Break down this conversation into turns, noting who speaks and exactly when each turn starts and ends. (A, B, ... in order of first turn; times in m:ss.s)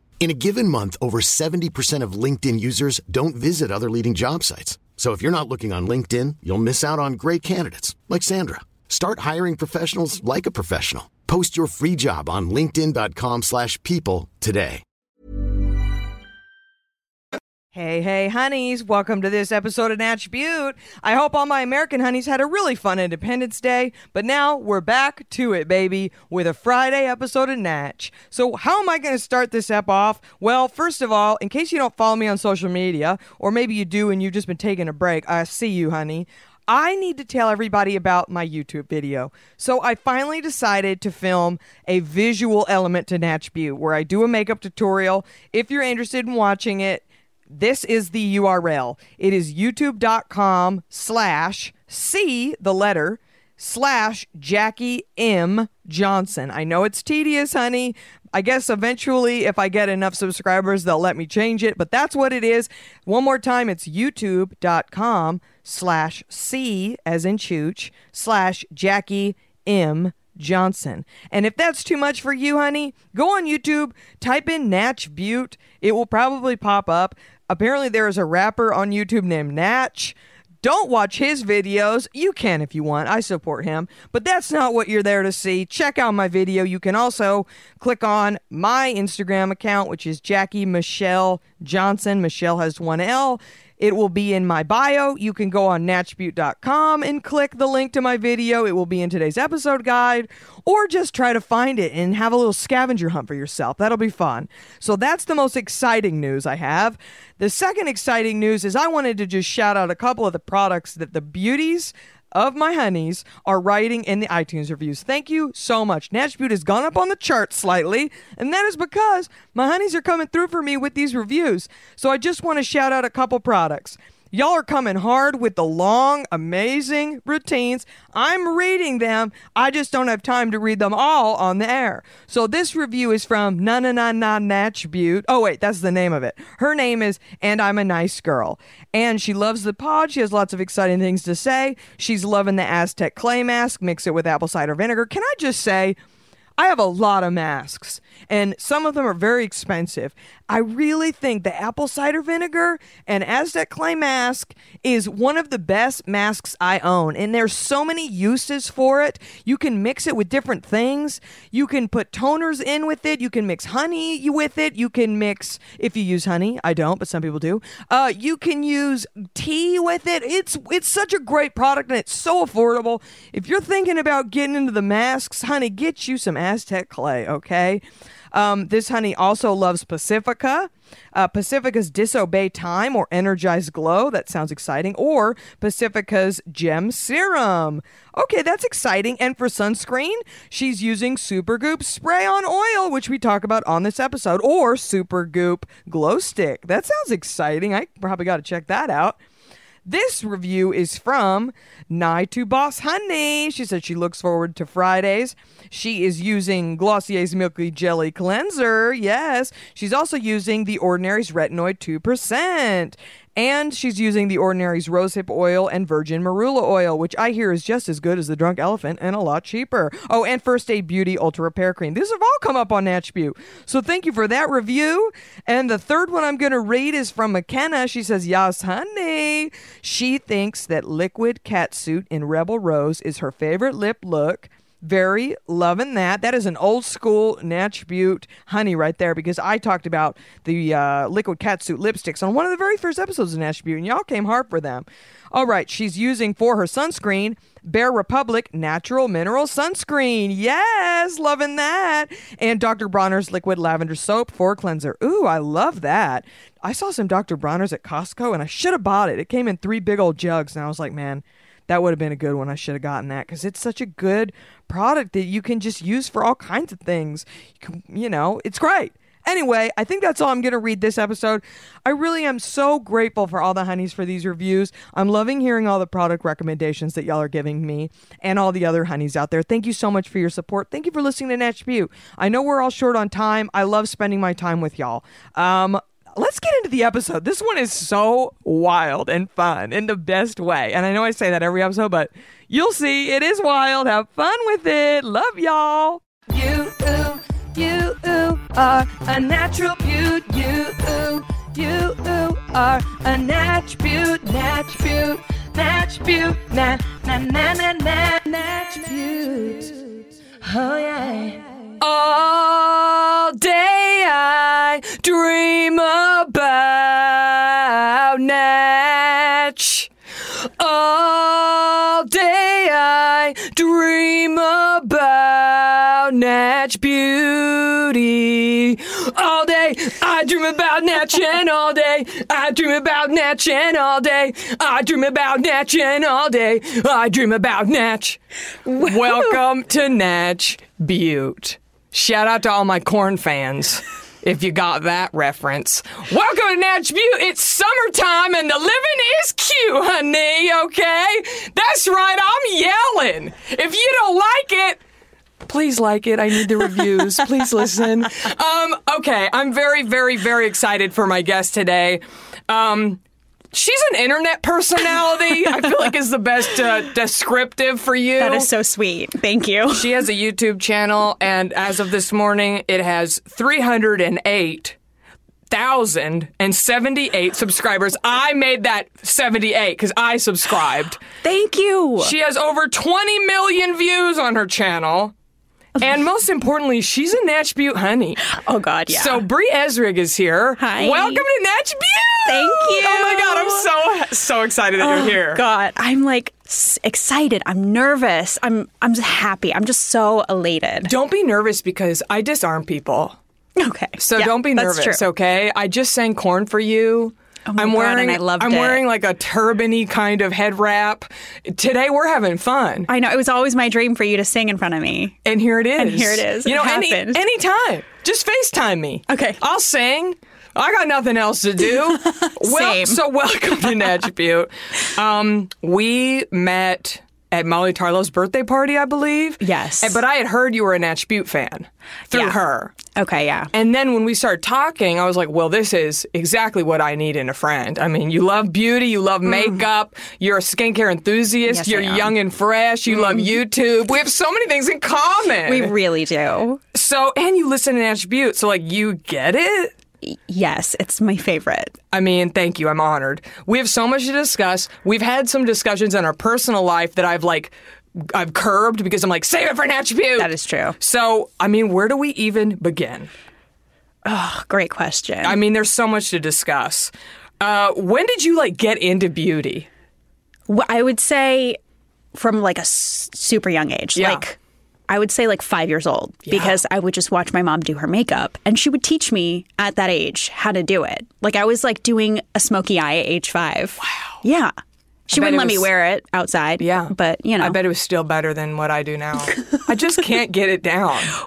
0:00.2-0:14.8 A
0:17.7-2:26.0 B
2:26.6-3:19.2 B
3:19.8-5:19.9 B
5:20.6-5:54.8 B
5:38.8-5:39.3 C
5:55.4-6:03.0 B
6:03.5-6:08.5 B
6:08.2-6:10.0 C
6:09.7-6:14.7 B
6:15.5-6:21.0 B
6:21.2-6:22.1 C
6:22.0-6:25.1 B
6:25.8-6:28.2 B
6:28.3-6:29.2 C
6:28.9-6:35.4 B
6:30.6-6:31.2 C
6:32.2-6:33.7 C
6:34.8-6:40.9 C
6:40.8-6:43.2 B
6:43.6-6:45.0 C
6:44.0-6:52.9 B
6:47.5-6:48.8 C
6:52.9-6:55.2 C
6:55.2-7:12.7 B
6:55.8-6:57.2 C
6:59.1-6:59.4 C
7:01.7-7:03.0 C
7:09.4-7:10.0 C
7:12.9-7:13.5 C
7:13.5-7:25.7 B
7:19.3-7:19.6 C
7:21.5-7:22.1 C
7:22.9-7:23.3 C
7:25.4-7:26.6 C
7:26.7-7:29.7 B
7:30.0-7:31.7 C
7:31.9-7:37.5 B
7:38.1-7:43.1 B
7:40.2-7:40.8 C
7:44.0-7:45.4 C
7:45.2-7:49.7 B
7:50.5-7:51.6 C
7:52.1-7:54.4 C
7:54.0-7:54.2 B
7:54.9-8:04.5 C
7:56.3-7:56.5 B
8:03.8-8:04.2 B
8:05.1-8:07.6 C
8:05.1-8:05.7 B
8:06.6-8:11.1 B